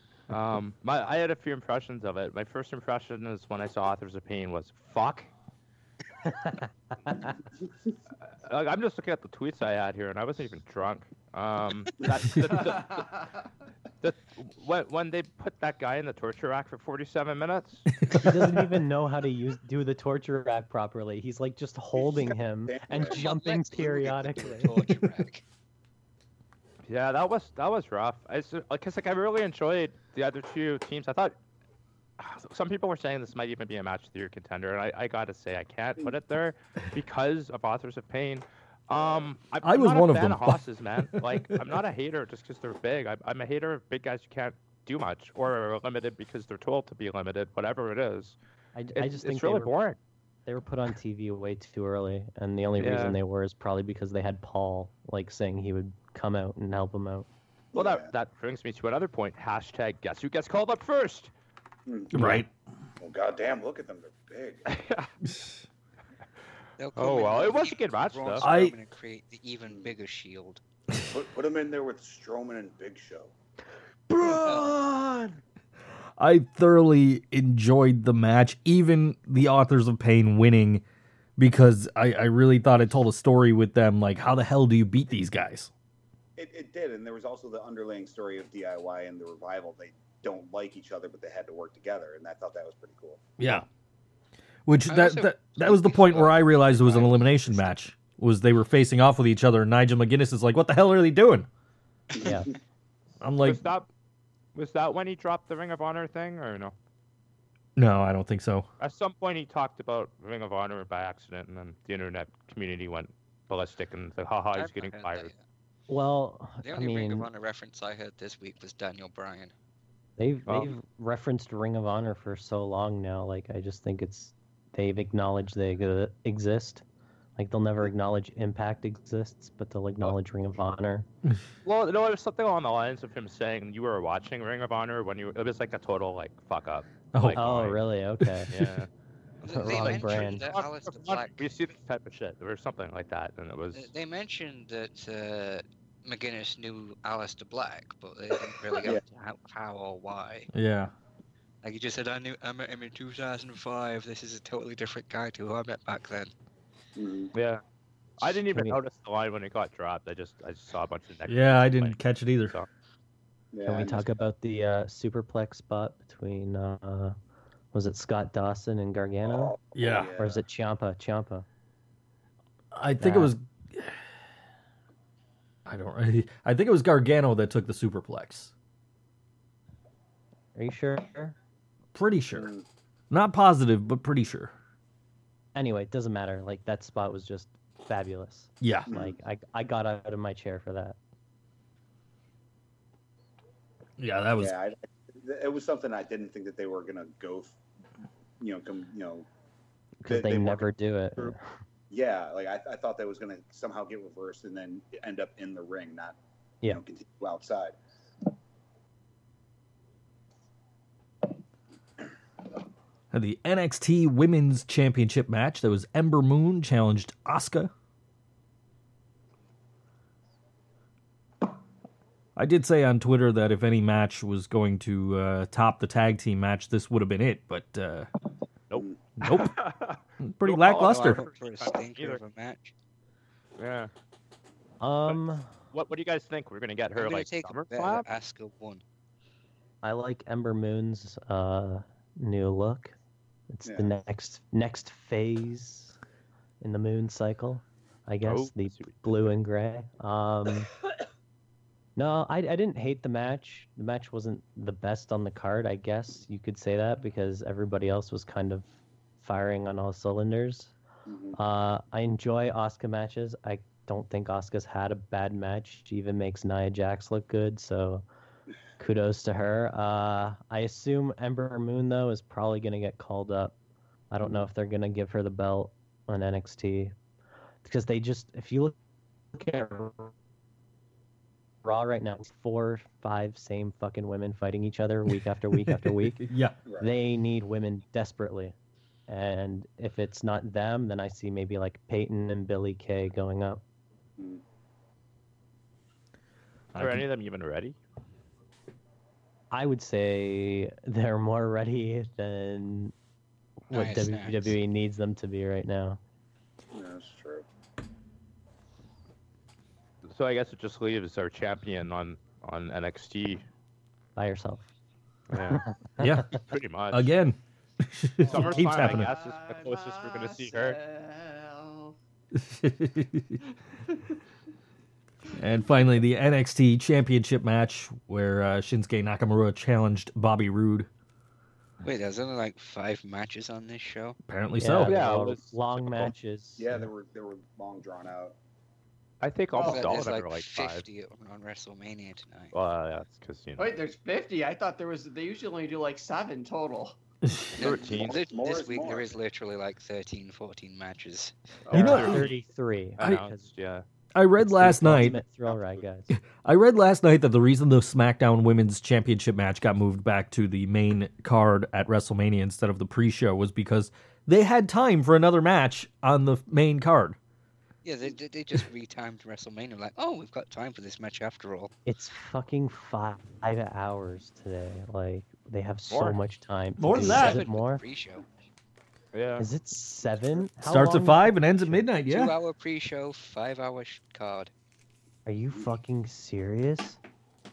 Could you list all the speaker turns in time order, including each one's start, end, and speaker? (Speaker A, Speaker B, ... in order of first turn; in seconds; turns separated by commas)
Speaker A: 0.3-5.3, Speaker B: 6.2-7.3, Speaker A: 8.4-13.1, Speaker C: 12.5-13.4, Speaker A: 14.0-17.9, Speaker B: 18.2-24.9, Speaker D: 21.9-23.2, Speaker E: 23.0-25.4, Speaker A: 26.9-31.4, Speaker A: 32.2-48.4, Speaker D: 38.9-39.3, Speaker F: 39.6-41.7, Speaker B: 48.7-49.7, Speaker A: 48.9-50.0, Speaker B: 50.5-57.3, Speaker A: 52.8-53.2, Speaker D: 57.7-58.1, Speaker A: 57.7-61.3, Speaker D: 61.9-62.3, Speaker F: 62.1-62.5, Speaker D: 63.0-64.6, Speaker A: 64.7-65.1, Speaker E: 66.8-70.6, Speaker A: 67.0-68.5, Speaker F: 68.4-68.7, Speaker D: 69.7-69.9, Speaker D: 71.1-73.3, Speaker F: 74.1-75.4, Speaker E: 74.4-74.8, Speaker F: 76.2-80.8, Speaker F: 81.4-85.7, Speaker D: 86.4-93.2, Speaker F: 93.4-93.7, Speaker F: 94.7-101.5, Speaker E: 94.9-97.8, Speaker D: 102.2-102.5, Speaker B: 102.2-102.5, Speaker F: 103.2-103.6, Speaker A: 103.4-103.9, Speaker A: 104.5-106.7, Speaker F: 107.8-108.7, Speaker A: 108.8-115.3, Speaker E: 114.5-115.4, Speaker B: 115.9-117.3, Speaker E: 116.6-119.5, Speaker B: 120.2-126.8, Speaker A: 120.5-120.7, Speaker B: 127.4-131.1, Speaker A: 131.6-137.8, Speaker F: 137.1-137.4, Speaker B: 137.4-138.5, Speaker F: 138.2-138.6, Speaker A: 138.5-138.9, Speaker E: 139.4-141.5, Speaker B: 139.5-140.4, Speaker A: 139.6-143.9, Speaker E: 143.7-150.5, Speaker F: 150.5-150.9, Speaker E: 151.6-156.3, Speaker D: 156.9-157.3, Speaker A: 157.3-157.6, Speaker A: 158.2-162.7, Speaker B: 158.5-158.8, Speaker F: 161.3-162.6, Speaker D: 163.5-164.1, Speaker B: 163.6-167.2, Speaker B: 167.7-169.6, Speaker D: 169.2-170.4, Speaker F: 169.7-170.1, Speaker B: 170.2-171.4, Speaker F: 172.7-174.0, Speaker B: 173.0-173.3, Speaker F: 175.7-178.5, Speaker B: 180.6-181.4, Speaker F: 181.9-182.5, Speaker D: 182.3-182.6, Speaker F: 183.1-184.5, Speaker B: 185.5-191.0, Speaker F: 188.6-188.9, Speaker D: 188.9-189.2, Speaker F: 194.0-194.6, Speaker D: 194.4-197.6, Speaker D: 198.4-199.3, Speaker B: 200.0-201.4, Speaker D: 200.1-201.3, Speaker D: 201.9-207.8, Speaker F: 213.1-217.7, Speaker F: 222.4-228.1, Speaker A: 228.7-232.2, Speaker F: 229.2-229.6, Speaker F: 230.2-231.2, Speaker E: 230.7-232.7, Speaker A: 233.6-233.9, Speaker B: 234.8-235.5, Speaker A: 235.7-238.1, Speaker E: 236.9-238.8, Speaker B: 239.8-242.9, Speaker B: 243.5-245.9, Speaker D: 243.6-243.9, Speaker B: 246.6-250.7, Speaker A: 248.2-249.2, Speaker B: 251.9-258.7, Speaker B: 259.2-260.7, Speaker D: 261.1-261.4, Speaker B: 261.4-268.0, Speaker B: 268.8-273.5, Speaker B: 274.1-276.9, Speaker B: 277.6-278.7, Speaker B: 279.3-280.1, Speaker B: 281.6-286.2, Speaker F: 285.5-286.5, Speaker B: 286.8-288.5, Speaker B: 289.1-293.6, Speaker A: 296.7-297.8, Speaker F: 296.7-297.0, Speaker B: 299.5-302.9, Speaker E: 303.7-304.5, Speaker B: 303.7-306.0, Speaker D: 306.7-307.4, Speaker A: 310.1-313.4, Speaker B: 314.1-314.7, Speaker A: 315.3-315.6, Speaker B: 315.4-316.3, Speaker F: 316.0-316.3, Speaker A: 316.4-317.1, Speaker F: 316.9-319.1, Speaker C: 318.2-321.9, Speaker A: 318.3-320.8, Speaker F: 322.4-323.4, Speaker F: 325.4-330.9, Speaker E: 331.8-334.2, Speaker F: 334.2-335.0, Speaker B: 334.6-336.9, Speaker A: 334.9-336.1, Speaker D: 336.6-338.4, Speaker A: 339.2-340.9, Speaker C: 339.5-339.9, Speaker E: 339.6-342.5, Speaker A: 342.5-343.8, Speaker C: 343.6-346.9, Speaker F: 347.2-347.5, Speaker E: 347.6-351.4, Speaker A: 347.6-348.2, Speaker D: 347.6-349.2, Speaker C: 351.7-352.0, Speaker F: 351.7-352.3, Speaker B: 351.7-353.4, Speaker A: 351.7-352.3, Speaker A: 353.0-353.8, Speaker F: 354.1-355.2, Speaker B: 354.6-356.1, Speaker D: 355.0-355.8, Speaker F: 356.1-367.2, Speaker E: 367.8-371.7, Speaker B: 371.9-377.8, Speaker A: 375.9-376.2, Speaker F: 376.8-377.4, Speaker E: 376.9-378.2, Speaker A: 379.1-379.4, Speaker B: 379.4-381.9, Speaker F: 380.6-382.4, Speaker E: 382.1-384.5, Speaker B: 385.2-387.0